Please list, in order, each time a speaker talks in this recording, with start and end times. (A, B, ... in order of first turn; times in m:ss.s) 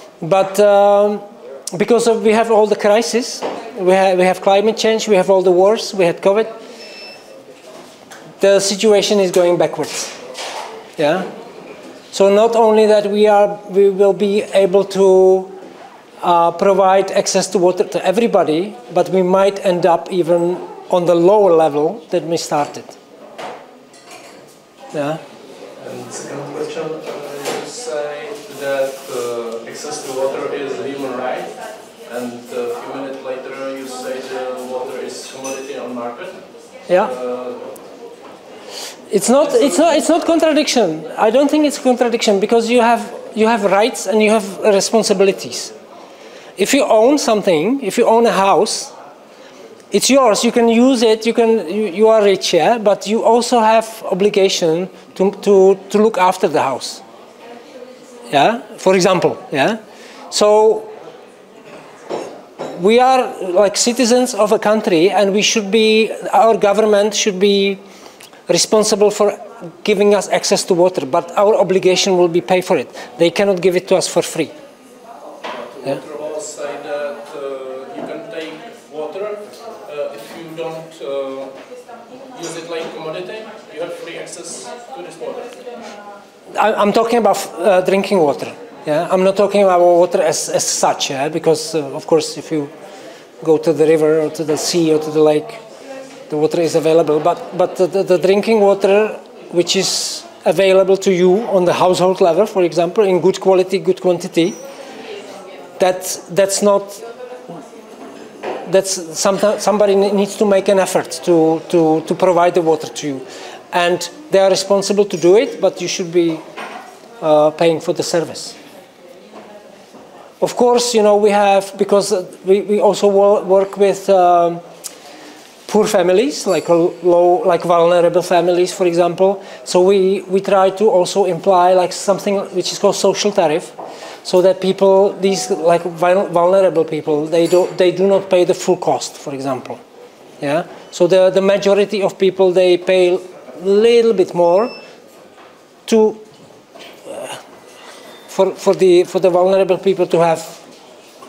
0:00.2-0:06.5 A
0:08.4-0:10.1 A
0:11.0-0:11.3 A
0:12.1-0:15.5 A
0:16.2-0:23.0 A
0:24.9-0:25.2 A
0:25.8-0:36.4 B
0:36.9-0:37.7 B
0:39.1-0:45.7 A
0:39.4-0:40.1 B
0:46.6-0:48.9 A
0:49.9-0:57.0 A
0:58.3-0:59.8 A
1:00.3-1:00.9 A
1:02.8-1:07.8 A
1:08.5-1:14.5 A
1:15.4-1:21.6 B
1:22.3-1:25.6 B
1:26.5-1:32.7 A
1:33.4-1:35.6 A
1:36.3-1:44.6 A
1:45.8-1:47.0 A
1:48.7-1:56.4 A
1:57.2-1:58.6 A
2:00.4-2:04.6 A
2:05.7-2:19.8 A
2:20.4-2:24.7 A
2:25.9-2:26.2 A
2:27.1-2:27.4 A
2:28.3-2:30.6 A